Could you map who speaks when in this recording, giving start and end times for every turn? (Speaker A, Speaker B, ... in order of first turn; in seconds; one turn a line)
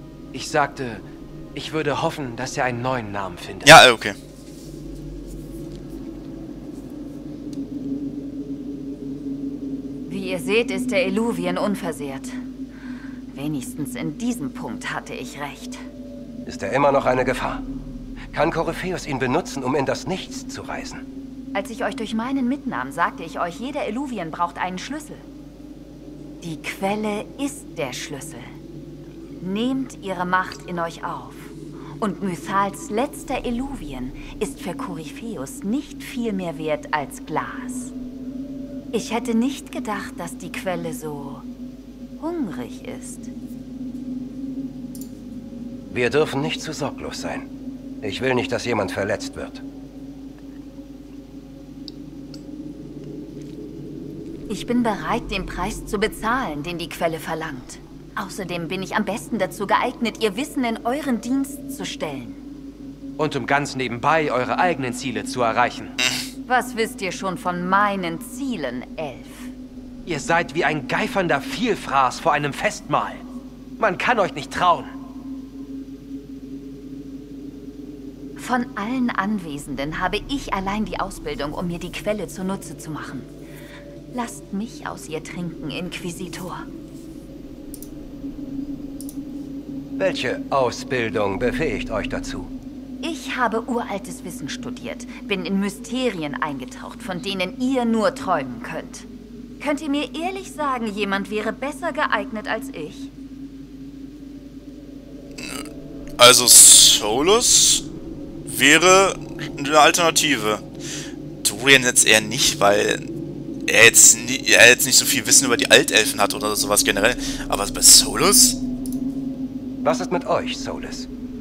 Speaker A: 0.3-1.0
Speaker A: 1.5-3.7
Speaker B: 3.6-4.2
Speaker C: 10.1-12.3
Speaker C: 13.3-15.8
Speaker D: 16.4-17.6
Speaker D: 18.3-21.0
Speaker C: 21.5-25.2
Speaker C: 26.4-28.5
Speaker C: 29.4-37.9
Speaker C: 38.9-41.5
Speaker C: 42.2-43.3
Speaker D: 45.9-47.5
Speaker D: 48.0-49.6
Speaker C: 54.5-62.4
Speaker A: 63.2-65.9
Speaker C: 66.5-69.5
Speaker A: 70.0-73.2
Speaker A: 73.8-74.9
Speaker C: 78.4-83.3
Speaker C: 84.1-86.7
Speaker D: 90.0-92.5
Speaker C: 93.0-99.1
Speaker C: 99.6-103.1
Speaker B: 105.4-105.7
Speaker B: 106.2-107.8
Speaker B: 108.5-110.6
Speaker B: 111.4-113.1
Speaker B: 113.7-118.6
Speaker D: 119.8-121.1